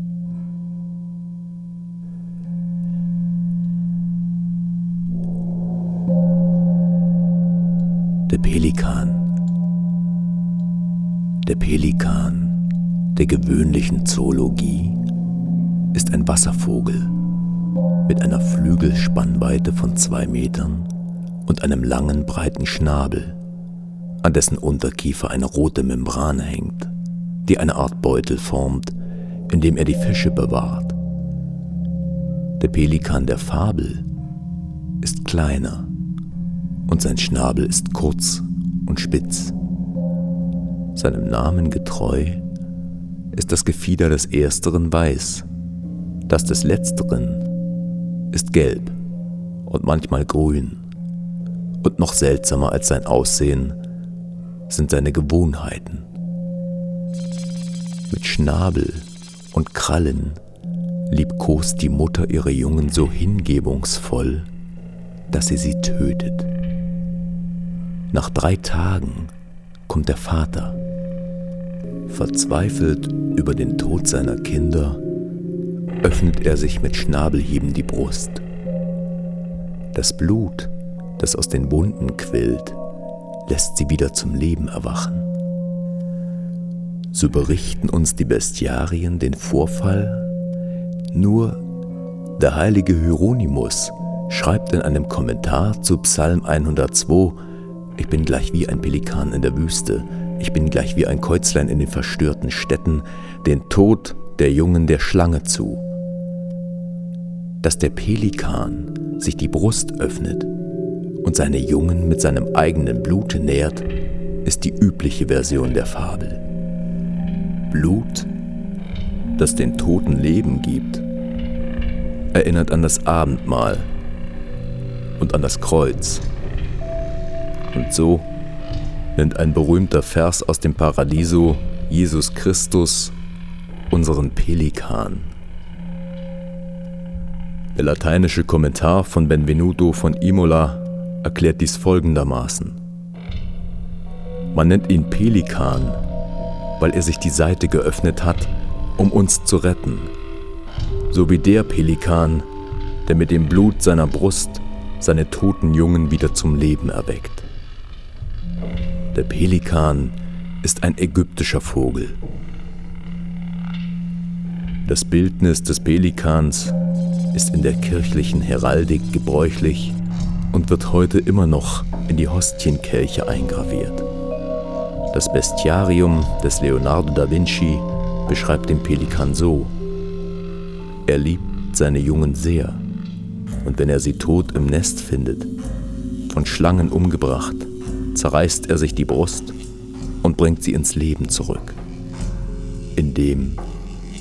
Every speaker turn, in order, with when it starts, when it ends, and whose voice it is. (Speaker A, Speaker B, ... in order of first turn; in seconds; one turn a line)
Speaker A: 8.3-9.2
Speaker A: 11.4-12.6
Speaker A: 13.2-15.0
Speaker A: 15.9-17.1
Speaker A: 18.1-20.9
Speaker A: 21.5-23.4
Speaker A: 24.2-26.9
Speaker A: 27.4-28.9
Speaker A: 29.5-31.0
Speaker A: 32.6-34.0
Speaker A: 35.0-35.9
Speaker A: 36.9-39.5
Speaker A: 41.0-42.4
Speaker A: 43.3-45.5
Speaker A: 46.3-47.4
Speaker A: 48.3-49.0
Speaker A: 49.7-50.8
Speaker A: 51.8-53.8
Speaker A: 54.7-56.1
Speaker A: 58.1-60.4
Speaker A: 61.1-64.5
Speaker A: 65.3-66.5
Speaker A: 68.1-69.3
Speaker A: 69.9-70.8
Speaker A: 72.1-75.0
Speaker A: 76.0-78.4
Speaker A: 79.9-82.8
Speaker A: 83.5-85.3
Speaker A: 87.1-90.3
Speaker A: 91.1-91.6
Speaker A: 92.4-97.4
Speaker A: 98.0-105.8
Speaker A: 107.6-110.5
Speaker A: 111.2-113.9
Speaker A: 114.5-116.4
Speaker A: 117.7-118.3
Speaker A: 119.4-121.0
Speaker A: 122.3-123.9
Speaker A: 125.2-126.2
Speaker A: 127.7-128.3
Speaker A: 129.2-133.1
Speaker A: 133.9-135.3
Speaker A: 137.8-142.8
Speaker A: 144.5-146.0
Speaker A: 146.8-150.1
Speaker A: 151.1-152.4
Speaker A: 153.1-157.5
Speaker A: 159.1-162.2
Speaker A: 164.9-166.8
Speaker A: 167.3-170.0
Speaker A: 170.5-174.1
Speaker A: 175.1-179.7
Speaker A: 181.1-182.8
Speaker A: 183.6-185.5
Speaker A: 186.3-189.6
Speaker A: 190.2-191.8
Speaker A: 193.0-193.6